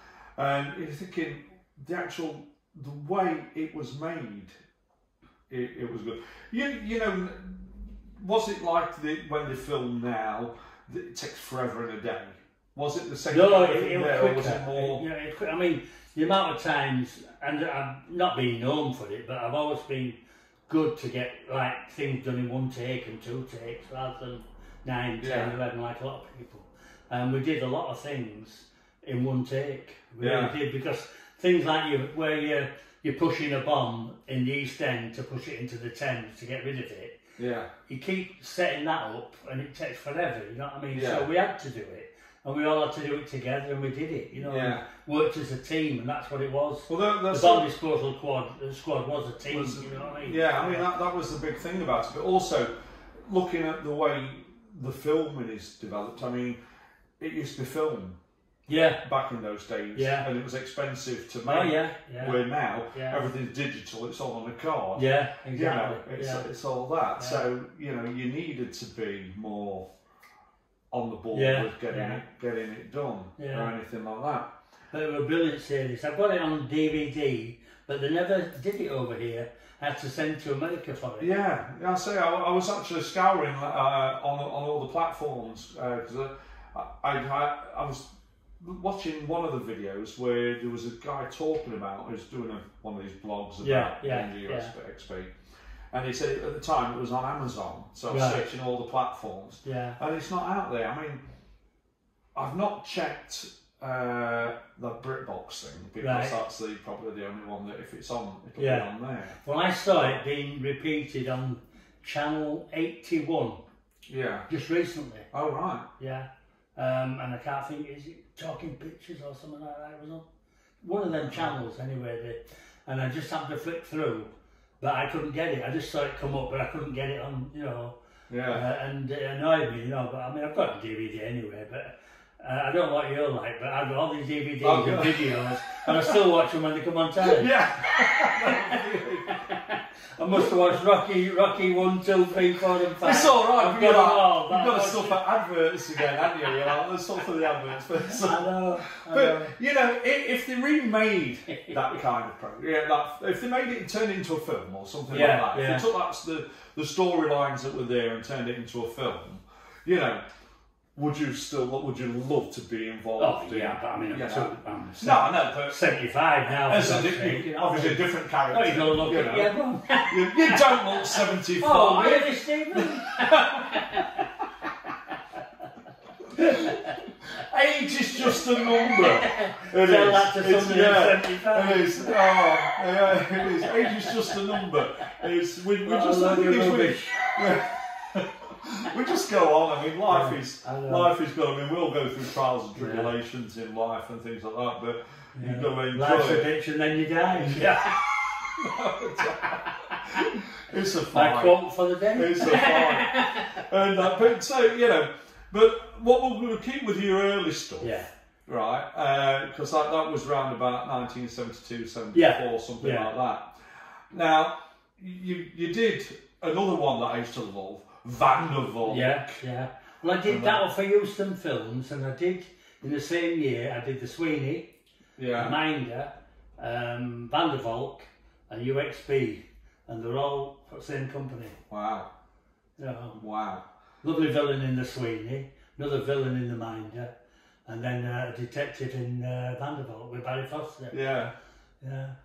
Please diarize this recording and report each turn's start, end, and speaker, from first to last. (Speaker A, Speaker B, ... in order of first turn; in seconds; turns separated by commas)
Speaker A: 0.4-4.6, Speaker A: 5.5-15.0, Speaker B: 13.3-37.2, Speaker A: 25.2-25.5, Speaker A: 30.2-30.6, Speaker A: 37.4-37.7, Speaker B: 37.9-50.9, Speaker A: 40.9-41.3, Speaker A: 44.4-44.8, Speaker A: 46.9-47.7, Speaker A: 49.5-56.6, Speaker A: 57.2-58.2, Speaker B: 58.7-59.0, Speaker A: 59.0-69.9, Speaker B: 60.0-60.3, Speaker B: 61.5-63.3, Speaker B: 65.0-66.5, Speaker B: 67.2-67.5, Speaker A: 70.9-74.5, Speaker B: 71.3-72.2, Speaker B: 73.4-73.7, Speaker B: 74.9-81.3, Speaker A: 81.2-88.1, Speaker A: 88.6-95.3, Speaker B: 93.6-94.7, Speaker A: 95.9-101.2, Speaker B: 98.1-98.5, Speaker B: 99.7-100.0, Speaker A: 102.3-109.4, Speaker B: 106.0-106.4, Speaker B: 108.6-108.9, Speaker B: 109.4-113.6, Speaker A: 109.9-110.2, Speaker A: 114.1-114.5, Speaker B: 114.5-115.3, Speaker A: 115.3-115.9, Speaker B: 116.0-120.2, Speaker B: 120.8-128.0, Speaker A: 121.1-121.5, Speaker A: 128.3-128.7, Speaker B: 128.5-145.2, Speaker A: 134.6-136.2, Speaker A: 137.2-139.4, Speaker A: 143.0-160.2, Speaker B: 146.2-146.7, Speaker B: 148.0-149.6, Speaker B: 151.5-151.9, Speaker B: 155.1-155.9, Speaker A: 161.0-165.8, Speaker B: 163.2-174.3, Speaker A: 166.6-169.6, Speaker A: 170.1-174.4, Speaker B: 174.8-175.6, Speaker B: 176.3-177.0, Speaker A: 176.3-176.8, Speaker A: 177.3-196.5, Speaker B: 178.2-185.1, Speaker B: 185.8-187.4, Speaker B: 190.1-191.1, Speaker B: 192.8-193.1, Speaker B: 195.4-198.6, Speaker A: 197.3-201.6, Speaker B: 199.3-200.3, Speaker B: 201.1-204.0, Speaker A: 202.1-219.4, Speaker B: 207.8-208.1, Speaker B: 212.1-213.1, Speaker B: 218.8-224.7, Speaker A: 220.3-220.6, Speaker A: 225.2-225.6, Speaker B: 225.3-231.6, Speaker A: 231.7-232.1, Speaker B: 232.8-233.2, Speaker A: 233.2-233.6, Speaker B: 234.0-237.1, Speaker B: 237.7-241.0, Speaker A: 240.9-241.3, Speaker B: 241.8-242.1